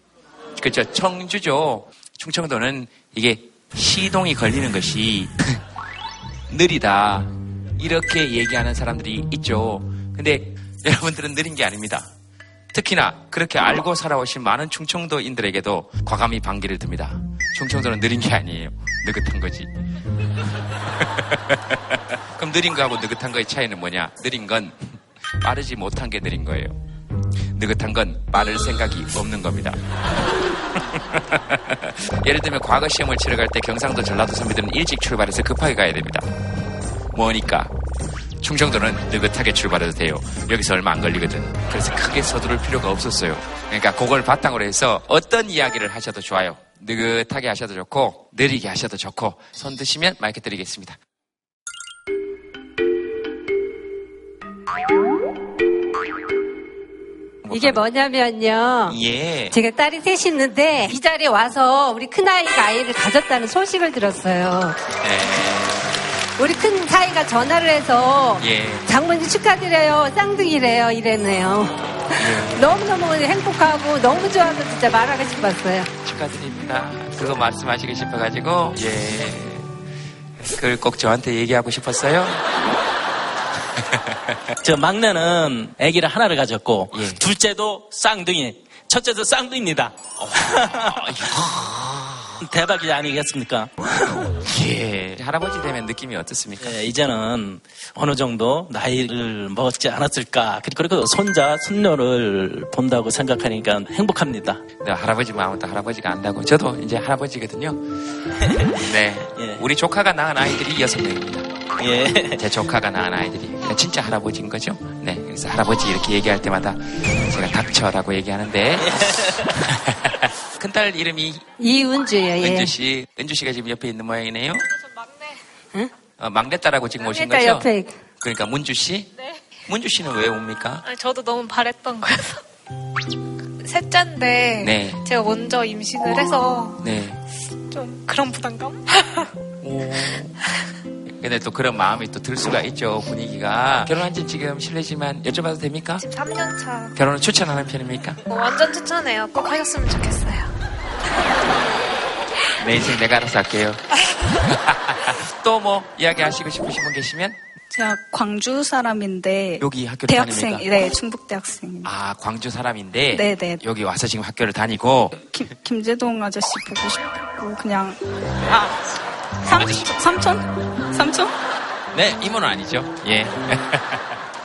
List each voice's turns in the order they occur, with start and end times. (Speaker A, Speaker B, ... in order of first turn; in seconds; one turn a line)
Speaker A: 0.6-5.6
Speaker A: 6.5-12.1
Speaker A: 12.7-19.7
Speaker A: 21.1-26.7
Speaker A: 27.5-29.8
Speaker A: 30.9-36.3
Speaker A: 37.1-37.7
Speaker A: 38.4-51.0
Speaker A: 57.4-57.8
Speaker B: 57.5-59.0
Speaker A: 58.9-59.5
Speaker B: 59.5-64.8
Speaker A: 65.0-66.0
Speaker B: 66.4-75.9
Speaker A: 68.4-68.9
Speaker A: 72.2-72.6
Speaker A: 76.0-79.7
Speaker A: 80.5-82.4
Speaker C: 84.6-91.7
Speaker A: 86.9-87.2
Speaker A: 90.2-91.8
Speaker C: 92.4-94.3
Speaker A: 94.4-96.7
Speaker C: 96.6-104.6
Speaker A: 104.8-107.8
Speaker A: 108.8-111.5
Speaker C: 109.3-109.6
Speaker C: 111.8-112.4
Speaker A: 112.3-118.9
Speaker C: 118.9-119.3
Speaker A: 119.6-121.4
Speaker B: 121.6-122.7
Speaker A: 122.4-124.6
Speaker A: 126.2-127.7
Speaker B: 127.1-128.0
Speaker A: 128.2-129.1
Speaker A: 129.7-130.8
Speaker D: 130.8-132.4
Speaker D: 133.6-136.8
Speaker A: 134.6-135.0
Speaker A: 136.8-137.2
Speaker D: 137.7-139.2
Speaker A: 139.6-140.4
Speaker A: 141.2-146.0
Speaker D: 146.0-146.9
Speaker A: 146.9-148.2
Speaker D: 148.3-150.5
Speaker A: 152.6-153.8
Speaker A: 154.4-157.4
Speaker E: 157.7-161.9
Speaker A: 159.6-160.7
Speaker A: 161.8-165.2
Speaker E: 163.1-163.6
Speaker E: 165.2-168.7
Speaker E: 169.4-171.3
Speaker A: 169.5-169.9
Speaker A: 171.9-174.1